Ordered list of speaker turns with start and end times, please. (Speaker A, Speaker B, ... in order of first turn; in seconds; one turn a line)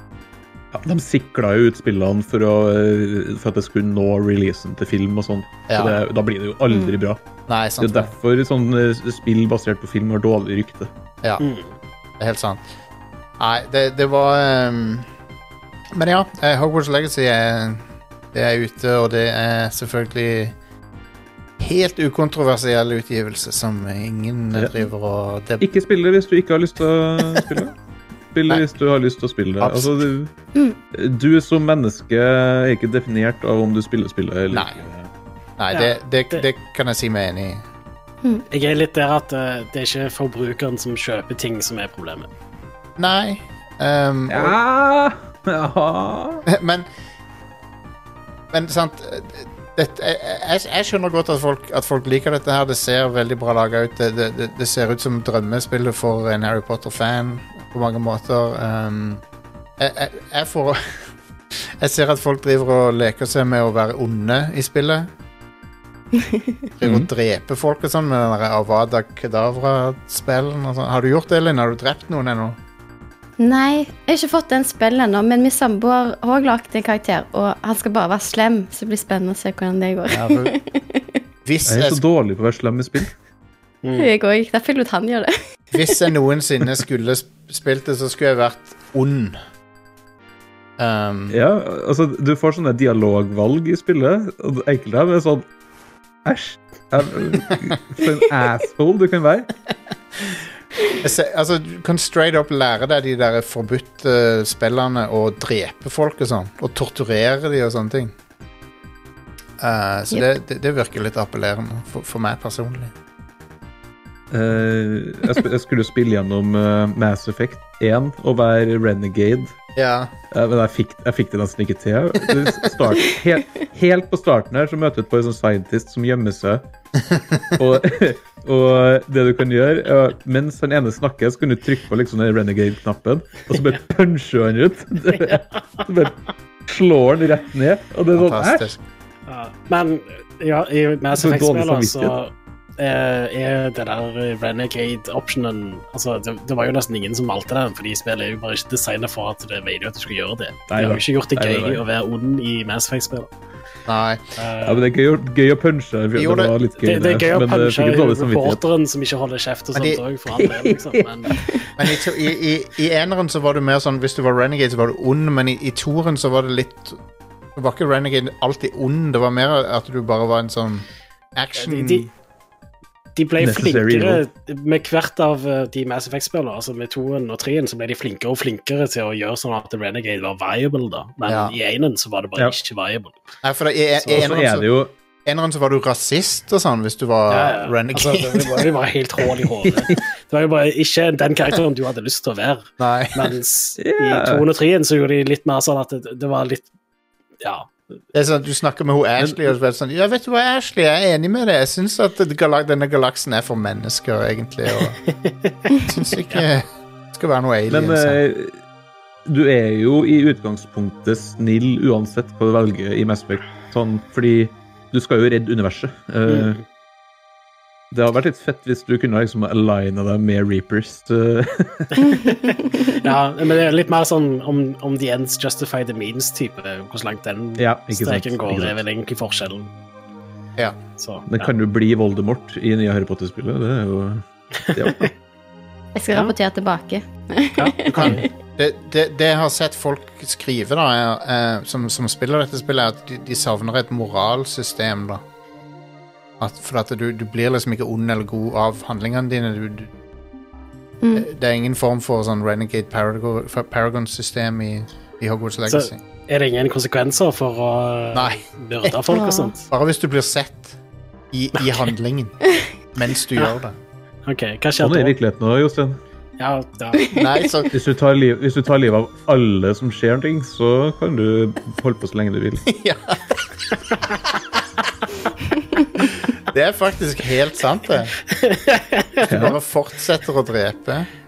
Speaker A: 0.7-7.2
Speaker B: 5.7-6.0
Speaker B: 7.5-8.1
Speaker A: 7.8-10.9
Speaker C: 11.4-11.7
Speaker B: 12.2-12.6
Speaker B: 13.4-15.1
Speaker B: 15.9-17.8
Speaker B: 18.3-20.5
Speaker B: 21.6-25.6
Speaker A: 25.6-27.8
Speaker A: 28.3-30.3
Speaker B: 29.6-30.0
Speaker A: 30.9-35.1
Speaker B: 34.5-34.8
Speaker B: 35.6-37.6
Speaker C: 35.7-36.4
Speaker C: 38.5-42.3
Speaker B: 43.0-44.6
Speaker A: 44.3-46.4
Speaker B: 46.5-46.9
Speaker B: 48.5-59.2
Speaker B: 59.8-60.8
Speaker B: 61.6-65.1
Speaker B: 66.8-72.6
Speaker A: 66.8-67.1
Speaker D: 73.4-81.2
Speaker B: 80.1-80.5
Speaker B: 81.4-82.0
Speaker A: 81.7-83.1
Speaker C: 83.8-84.1
Speaker D: 84.0-86.0
Speaker B: 85.7-89.4
Speaker B: 90.8-91.4
Speaker A: 91.3-95.5
Speaker A: 96.2-99.5
Speaker B: 101.0-108.1
Speaker B: 109.6-112.9
Speaker A: 114.3-119.6
Speaker B: 119.8-120.1
Speaker A: 120.3-126.7
Speaker B: 127.1-127.4
Speaker A: 127.6-138.7
Speaker B: 138.1-138.8
Speaker C: 139.3-153.3
Speaker A: 141.1-142.2
Speaker A: 150.7-151.8
Speaker B: 153.9-154.2
Speaker C: 154.4-154.8
Speaker A: 154.6-158.6
Speaker B: 156.2-156.5
Speaker C: 156.8-161.4
Speaker B: 159.7-160.0
Speaker A: 160.3-161.5
Speaker B: 161.8-167.0
Speaker B: 167.5-172.1
Speaker C: 171.6-172.1
Speaker C: 173.2-183.2
Speaker A: 173.4-174.2
Speaker B: 181.3-181.5
Speaker B: 183.4-184.7
Speaker A: 184.0-184.9
Speaker B: 185.2-188.7
Speaker C: 187.3-196.6
Speaker A: 189.7-190.0
Speaker B: 192.8-193.2
Speaker A: 193.8-194.4
Speaker C: 197.4-197.7
Speaker B: 198.1-205.0
Speaker C: 205.1-205.7
Speaker B: 205.8-208.2
Speaker A: 207.7-208.6
Speaker A: 209.2-216.6
Speaker C: 216.2-216.6
Speaker A: 217.9-222.0
Speaker D: 222.0-222.9
Speaker C: 222.1-229.7
Speaker A: 227.6-228.8
Speaker C: 231.0-231.5
Speaker A: 231.3-235.1
Speaker C: 234.7-235.1
Speaker D: 235.9-238.3
Speaker C: 237.6-238.2
Speaker B: 237.9-245.2
Speaker B: 246.4-249.9
Speaker D: 251.0-251.3
Speaker B: 251.1-256.0
Speaker C: 255.7-259.6
Speaker B: 258.1-259.0
Speaker D: 259.1-259.5
Speaker B: 259.7-260.8
Speaker B: 261.3-262.4
Speaker C: 261.6-261.8
Speaker B: 262.9-263.8
Speaker C: 264.2-265.2
Speaker A: 264.8-266.0
Speaker C: 266.4-267.1
Speaker D: 266.9-267.3
Speaker B: 267.1-267.7
Speaker A: 267.7-272.7
Speaker B: 272.7-273.2
Speaker B: 276.0-278.1
Speaker C: 278.4-279.3
Speaker B: 279.2-281.1
Speaker A: 279.2-279.6